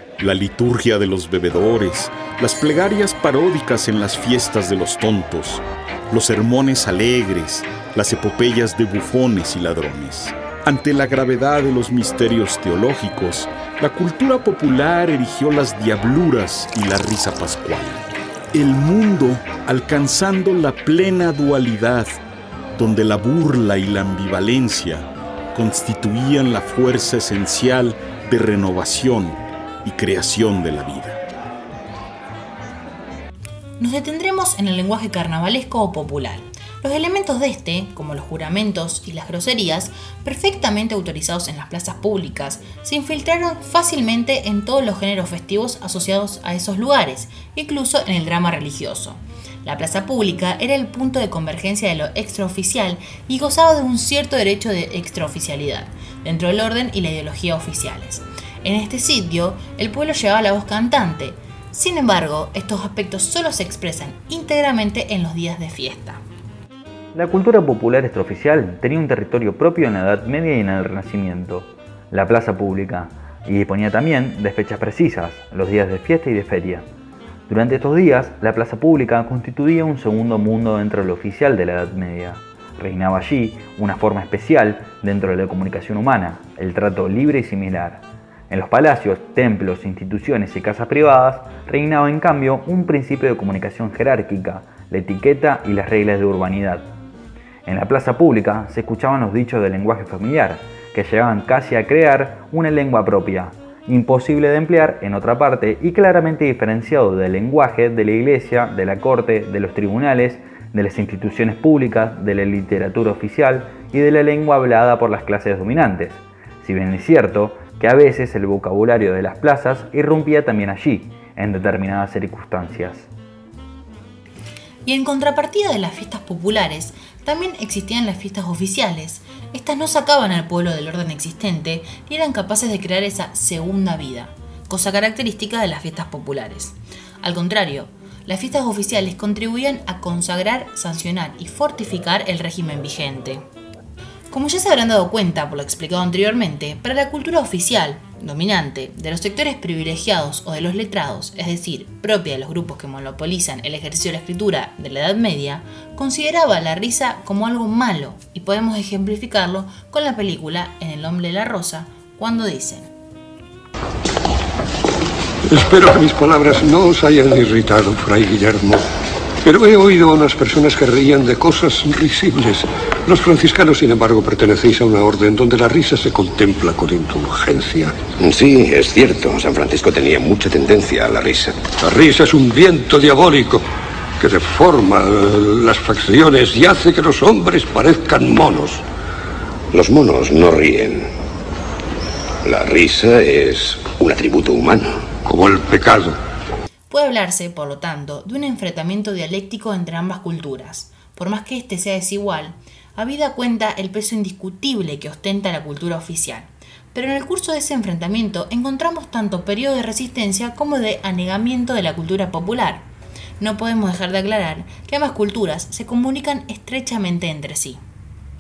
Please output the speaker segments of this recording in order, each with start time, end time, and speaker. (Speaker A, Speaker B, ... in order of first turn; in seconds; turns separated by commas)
Speaker A: 0.2-22.2, Speaker A: 22.8-31.2, Speaker B: 33.8-66.2, Speaker C: 67.1-76.9, Speaker C: 77.5-97.0, Speaker C: 97.7-123.1, Speaker B: 124.8-143.4, Speaker B: 144.3-162.9, Speaker D: 165.5-168.8, Speaker D: 169.4-178.2, Speaker E: 178.2-181.7, Speaker D: 181.7-183.7, Speaker D: 184.2-188.8, Speaker E: 189.7-191.1, Speaker E: 192.4-195.1, Speaker D: 195.2-196.2, Speaker B: 196.9-212.9, Speaker B: 213.4-217.8